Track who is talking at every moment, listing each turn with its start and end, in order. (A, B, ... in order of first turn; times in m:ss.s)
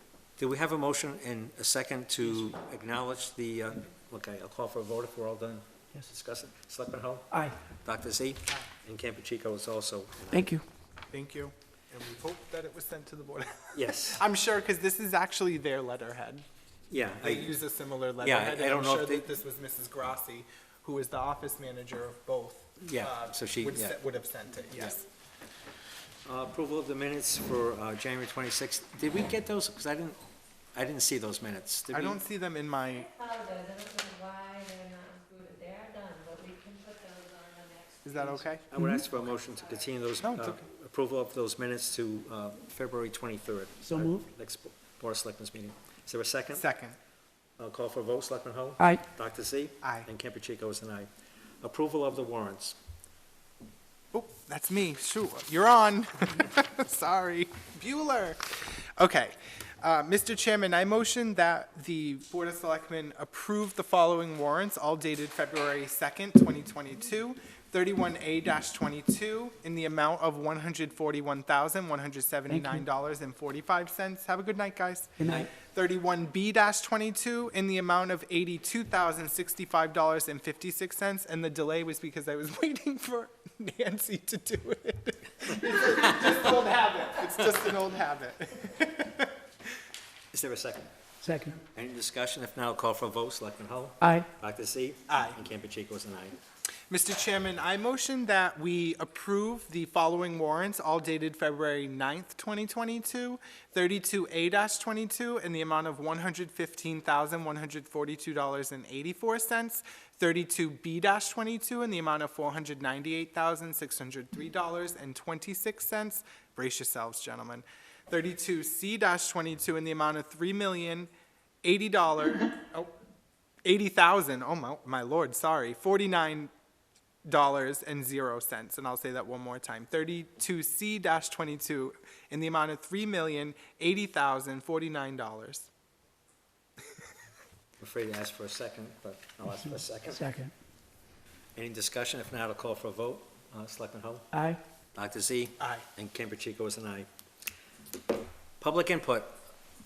0:00.4-0:10.5 A
0:10.3-0:10.6 B
0:11.1-0:16.4 C
0:13.7-0:14.2 A
0:16.9-0:17.5 A
0:17.2-0:25.0 C
0:18.2-0:19.2 A
0:22.8-0:24.0 A
0:26.2-0:30.2 A
0:30.7-0:32.2 A
0:31.9-0:33.1 C
0:32.9-0:40.0 D
0:38.0-0:38.6 C
0:38.6-0:46.6 A
0:38.8-0:39.1 B
0:40.2-0:40.6 C
0:43.8-0:44.2 B
0:46.5-0:47.0 C
0:47.6-0:51.1 A
0:49.8-0:50.1 C
0:51.6-0:52.7 A
0:54.1-1:29.3 C
1:12.5-1:12.8 B
1:15.2-1:15.5 B
1:30.3-1:30.9 A
1:31.2-1:31.6 B
1:31.7-1:36.4 A
1:34.0-1:34.3 B
1:35.1-1:35.4 C
1:36.9-2:01.1 C
2:01.6-2:02.9 C
2:03.6-2:06.5 C
2:07.2-2:15.7 C
2:17.8-2:20.3 A
2:20.1-2:20.5 B
2:21.6-2:24.3 A
2:24.3-2:24.6 B
2:24.9-2:27.1 A
2:25.6-2:25.8 C
2:28.6-2:29.4 A